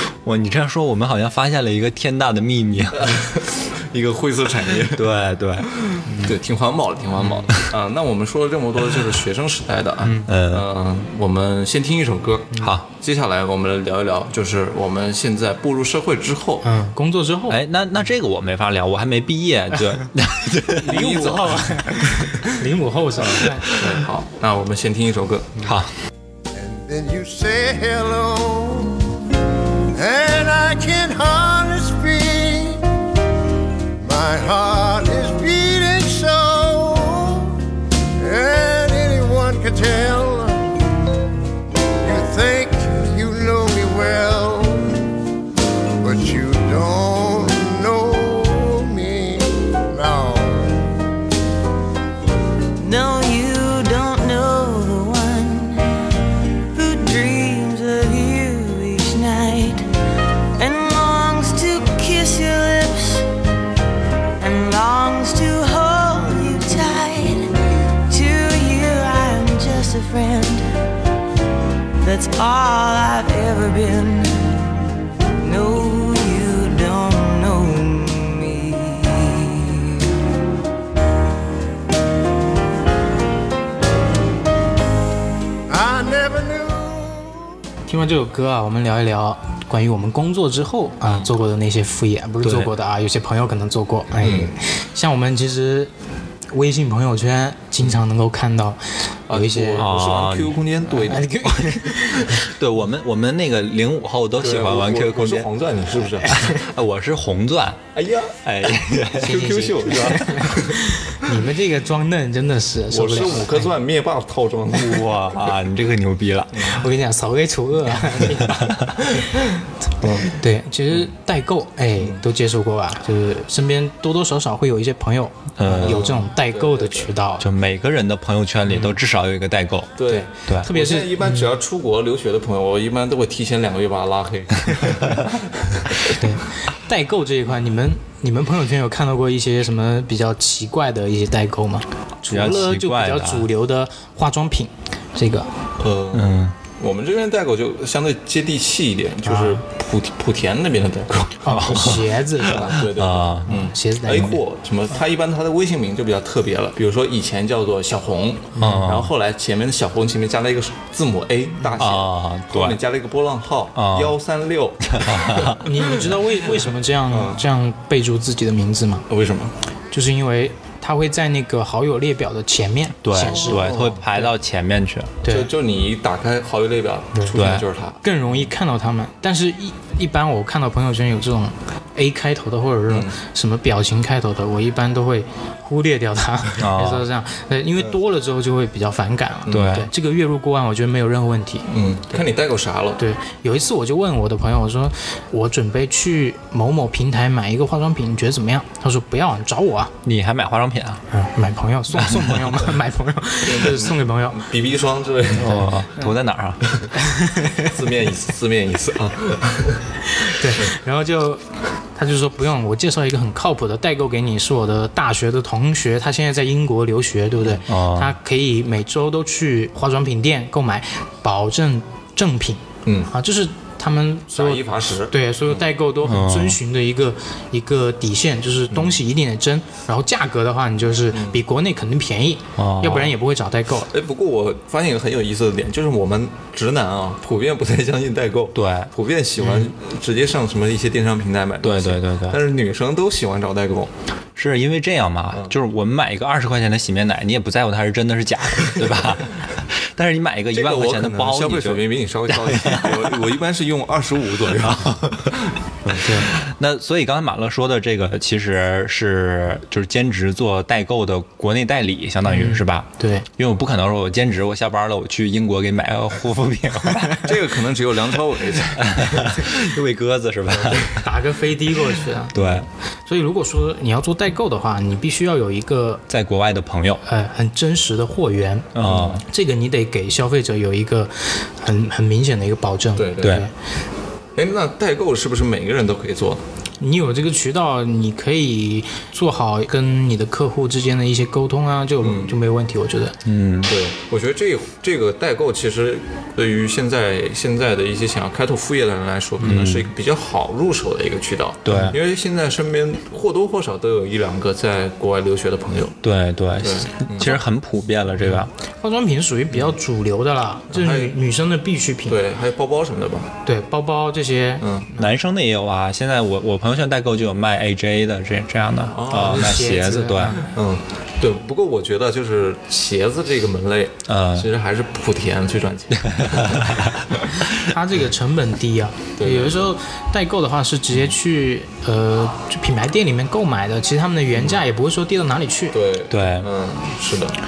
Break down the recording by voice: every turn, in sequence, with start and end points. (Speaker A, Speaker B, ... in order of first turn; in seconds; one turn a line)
Speaker A: 0.2-3.1
Speaker B: 2.9-5.1
Speaker A: 4.9-5.7
Speaker B: 5.8-16.7
Speaker C: 6.0-6.3
Speaker C: 7.2-7.5
Speaker C: 10.0-10.3
Speaker A: 10.2-10.7
Speaker A: 12.6-12.8
Speaker C: 16.6-17.6
Speaker A: 17.5-21.0
Speaker C: 20.8-23.7
Speaker B: 20.8-21.7
Speaker B: 23.2-25.5
Speaker A: 23.4-23.9
Speaker A: 25.6-25.9
Speaker D: 26.5-29.1
Speaker D: 29.9-32.9
Speaker D: 34.0-37.6
Speaker D: 38.2-40.8
Speaker D: 42.0-45.1
Speaker D: 46.0-50.9
Speaker E: 52.8-55.8
Speaker E: 56.7-59.9
Speaker E: 60.6-63.2
Speaker E: 64.4-67.5
Speaker E: 68.1-70.7
Speaker E: 72.0-74.4
Speaker E: 75.4-80.0
Speaker D: 85.7-87.4
Speaker C: 87.9-95.9
Speaker A: 92.4-92.7
Speaker B: 94.2-94.5
Speaker C: 96.5-99.8
Speaker B: 99.3-101.3
Speaker A: 99.8-100.6
Speaker C: 101.0-102.4
Speaker A: 102.3-105.5
Speaker B: 104.4-106.4
Speaker C: 106.2-106.6
Speaker A: 106.3-107.9
Speaker B: 107.9-108.4
Speaker A: 108.4-109.4
Speaker C: 109.2-113.7
Speaker B: 109.2-110.8
Speaker B: 112.9-115.2
Speaker A: 114.7-116.7
Speaker B: 116.5-116.8
Speaker C: 116.6-119.6
Speaker A: 118.6-118.8
Speaker B: 120.0-120.3
Speaker C: 120.2-127.5
Speaker A: 125.6-126.1
Speaker B: 125.7-127.1
Speaker A: 127.4-130.7
Speaker B: 130.0-136.2
Speaker C: 130.1-131.5
Speaker C: 136.1-145.5
Speaker A: 142.3-143.5
Speaker B: 145.8-151.4
Speaker A: 146.1-146.5
Speaker C: 149.2-149.6
Speaker C: 151.4-152.8
Speaker A: 151.4-153.5
Speaker B: 152.4-167.4
Speaker C: 153.5-154.4
Speaker C: 158.6-158.8
Speaker A: 158.6-159.1
Speaker A: 161.8-162.8
Speaker A: 163.7-164.2
Speaker A: 164.9-165.6
Speaker C: 165.5-169.1
Speaker B: 169.1-169.5
Speaker C: 169.9-174.3
Speaker A: 173.0-175.2
Speaker B: 173.2-174.0
Speaker C: 175.2-175.5
Speaker B: 175.2-178.0
Speaker A: 177.3-177.7
Speaker C: 178.0-191.7
Speaker B: 182.9-183.1
Speaker A: 186.6-187.1
Speaker B: 189.5-189.8
Speaker A: 189.5-189.9
Speaker B: 191.7-193.0
Speaker C: 193.0-199.9
Speaker A: 200.0-201.0
Speaker C: 201.1-204.4
Speaker A: 202.0-202.4
Speaker B: 203.4-205.6
Speaker A: 205.3-206.6
Speaker C: 205.4-206.1
Speaker C: 206.9-207.7
Speaker B: 207.6-209.8
Speaker C: 210.1-211.4
Speaker C: 211.9-233.9
Speaker A: 217.7-218.1
Speaker B: 222.8-223.1
Speaker B: 224.3-225.6
Speaker A: 226.0-226.6
Speaker B: 231.1-231.4
Speaker A: 232.6-233.1
Speaker B: 233.9-243.9
Speaker A: 238.5-238.9
Speaker C: 239.4-239.7
Speaker A: 241.6-242.4
Speaker A: 244.3-253.2
Speaker B: 250.5-255.3
Speaker A: 254.6-255.3
Speaker A: 255.9-267.3
Speaker C: 256.0-256.3
Speaker C: 262.2-263.2
Speaker B: 267.2-269.4
Speaker A: 268.7-271.0
Speaker C: 270.8-272.3
Speaker A: 272.3-272.7
Speaker B: 272.3-272.6
Speaker C: 273.1-276.0
Speaker A: 276.1-277.0
Speaker C: 277.0-283.5
Speaker A: 278.7-279.2
Speaker B: 278.8-279.2
Speaker B: 283.0-283.4
Speaker B: 284.4-286.4
Speaker C: 286.8-293.2
Speaker B: 292.0-292.3
Speaker A: 293.2-293.7
Speaker B: 293.7-306.0
Speaker A: 299.4-299.9
Speaker A: 301.6-302.0
Speaker C: 301.7-301.9
Speaker A: 306.0-308.5
Speaker B: 306.6-307.4
Speaker C: 308.2-312.2
Speaker B: 310.7-311.1
Speaker B: 312.1-313.3
Speaker C: 313.4-315.1
Speaker B: 314.6-314.9
Speaker A: 315.0-320.4
Speaker B: 318.9-319.8
Speaker C: 319.1-320.5
Speaker B: 320.4-327.3
Speaker A: 324.1-324.5
Speaker A: 326.0-326.9
Speaker C: 327.5-335.8
Speaker B: 329.2-329.7
Speaker B: 334.3-334.6
Speaker B: 335.7-337.4
Speaker A: 336.1-336.5